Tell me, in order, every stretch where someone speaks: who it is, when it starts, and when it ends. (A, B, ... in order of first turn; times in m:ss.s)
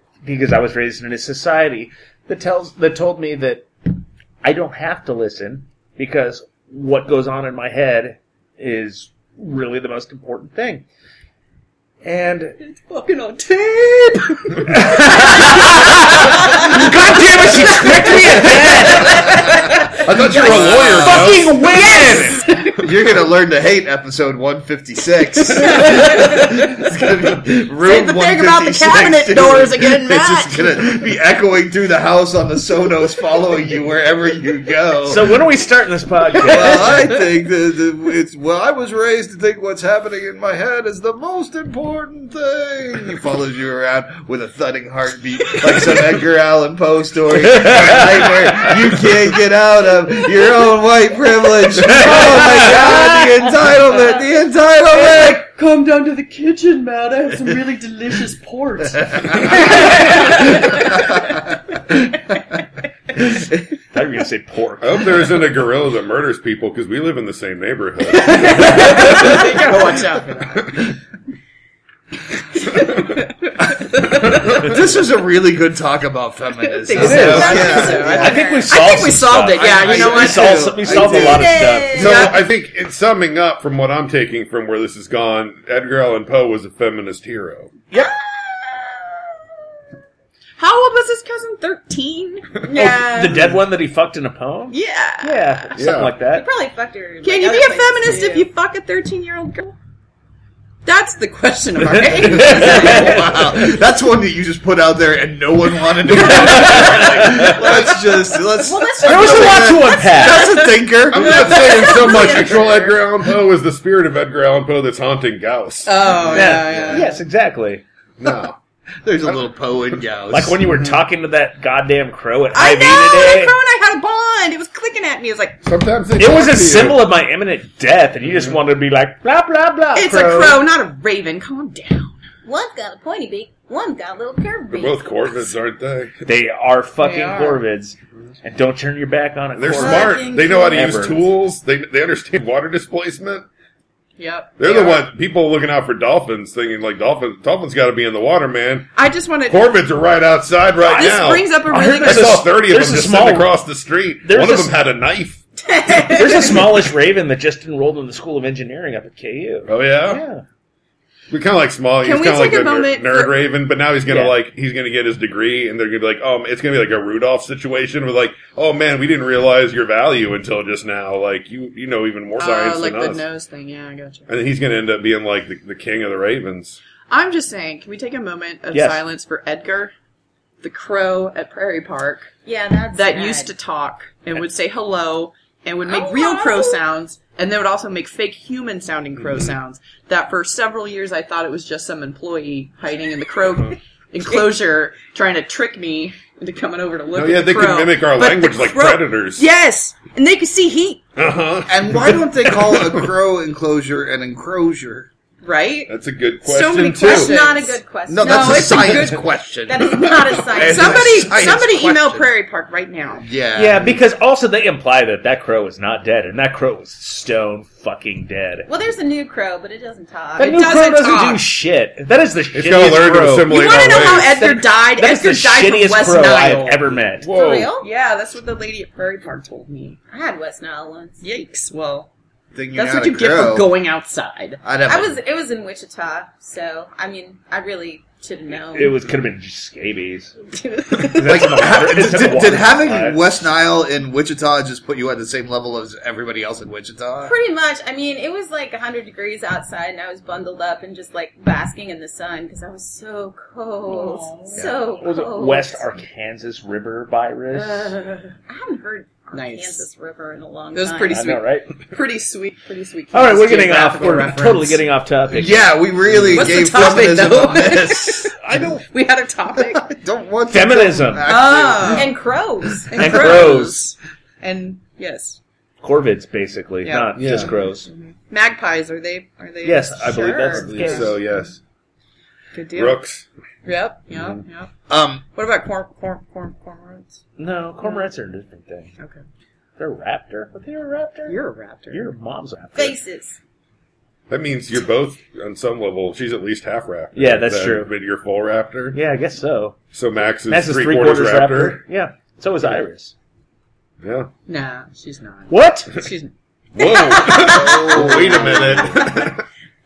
0:00.2-0:03.7 A
0:04.4-0:10.8 A
0:12.0-0:12.6 A
0:12.6-0:20.0 B
0:14.7-0:19.4 A
0:20.0-0:21.6 C
0:20.1-0:21.3 D
0:21.0-0:22.4 A
0:21.5-0:22.8 B
0:22.8-0:35.4 D
0:25.5-0:26.8 B
0:27.8-0:30.9 B
0:35.0-0:37.1 A
0:36.4-0:55.4 D
0:47.5-0:48.7 A
0:51.9-0:52.8 A
0:54.8-1:01.4 B
1:03.9-1:05.3 A
1:04.8-1:09.3 C
1:08.1-1:10.9 B
1:08.6-1:09.2 A
1:12.7-1:14.7 B
1:12.8-1:13.2 C
1:14.4-1:18.4 D
1:16.6-1:21.1 B
1:17.0-1:22.2 A
1:17.0-1:18.0 C
1:17.3-1:18.7 E
1:19.6-1:21.8 D
1:21.0-1:22.3 E
1:21.9-1:27.7 C
1:22.0-1:22.3 B
1:27.9-1:29.7 E
1:30.6-1:33.2 B
1:32.6-1:33.4 E
1:32.7-1:36.5 A
1:34.7-1:35.7 B
1:35.8-1:36.2 C
1:36.2-1:38.5 E
1:37.2-1:39.8 B
1:40.8-1:43.2 B
1:42.0-1:51.7 D
1:42.0-1:43.4 A
1:46.2-1:47.6 A
1:48.6-1:52.7 B
1:49.0-1:50.5 A
1:49.0-1:50.6 E
1:51.1-1:57.0 C
1:51.2-1:53.0 E
1:55.8-1:57.2 B
1:56.3-1:57.8 A
1:58.2-1:58.6 C
1:59.0-2:00.6 D
2:00.3-2:03.6 A
2:00.7-2:01.0 C
2:02.5-2:05.6 B
2:05.6-2:07.1 C
2:06.2-2:10.6 A
2:10.0-2:12.2 B
2:12.5-2:15.5 E
2:14.7-2:16.2 C
2:16.2-2:21.2 A
2:17.0-2:17.6 B
2:19.6-2:23.5 C
2:19.8-2:21.0 E
2:24.2-2:25.1 B
2:24.6-2:28.9 C
2:29.0-2:29.8 B
2:29.5-2:35.4 C
2:30.9-2:32.4 B
2:31.7-2:33.5 A
2:34.2-2:34.8 A
2:35.6-2:36.8 E
2:36.1-2:40.4 A
2:39.7-2:40.2 C
2:41.3-2:53.2 C
2:42.0-2:43.3 B
2:44.1-2:44.4 A
2:52.4-2:54.3 B
2:54.3-2:56.8 C
2:57.1-2:59.9 B
2:58.7-2:59.0 A
3:00.6-3:02.3 B
3:02.5-3:03.5 E
3:02.9-3:21.0 B
3:05.9-3:06.8 E
3:17.1-3:19.4 C
3:21.2-3:23.1 C
3:21.7-3:25.1 D
3:25.4-3:25.9 B
3:25.9-3:27.3 C
3:26.4-3:29.1 B
3:27.0-3:31.3 E
3:28.1-3:32.2 D
3:30.6-3:33.2 B
3:33.2-3:34.0 D
3:33.6-3:38.7 A
3:38.7-3:40.6 E
3:40.4-3:47.3 A
3:40.4-3:41.4 B
3:42.5-3:44.4 C
3:43.5-3:47.0 B
3:47.2-3:47.7 C
3:47.3-3:47.9 E
3:47.8-3:50.0 B
3:50.1-3:51.2 E
3:51.2-3:52.1 B
3:52.5-3:53.7 D
3:52.8-3:54.6 B
3:54.6-3:55.2 D
3:54.9-3:59.0 E
3:58.7-4:00.4 A
4:01.0-4:03.4 A
4:01.2-4:07.4 D
4:07.2-4:15.9 E
4:13.9-4:14.6 B
4:15.0-4:18.0 A
4:17.5-4:21.2 E
4:19.3-4:19.9 B
4:20.7-4:24.8 B
4:21.1-4:21.7 A
4:23.1-4:26.2 A
4:25.3-4:28.3 D
4:26.3-4:29.9 B
4:28.4-4:28.8 A
4:29.6-4:32.1 D
4:30.5-4:31.3 A
4:31.2-4:32.1 B
4:31.8-4:33.3 E
4:32.9-4:35.4 B
4:32.9-4:33.8 A
4:35.8-4:37.9 A
4:36.8-4:41.5 B
4:37.2-4:37.5 C
4:39.6-4:41.2 A
4:40.6-4:41.6 C
4:42.5-4:43.0 B
4:42.7-4:43.2 C
4:43.6-4:44.7 B
4:44.1-4:44.4 C
4:44.9-4:45.2 D
4:45.4-4:47.2 B
4:47.4-4:48.9 A
4:49.8-4:51.4 A
4:51.3-4:52.1 B
4:51.9-4:53.0 A
4:52.8-4:53.4 E
4:54.3-4:59.0 C
4:57.2-4:57.9 A
4:58.9-4:59.8 A
4:59.9-5:01.8 C
5:00.5-5:03.1 A
5:04.0-5:04.3 C
5:04.5-5:06.3 B
5:05.5-5:06.0 A
5:06.8-5:09.4 C
5:06.8-5:09.2 E
5:06.9-5:08.9 B
5:07.4-5:08.9 D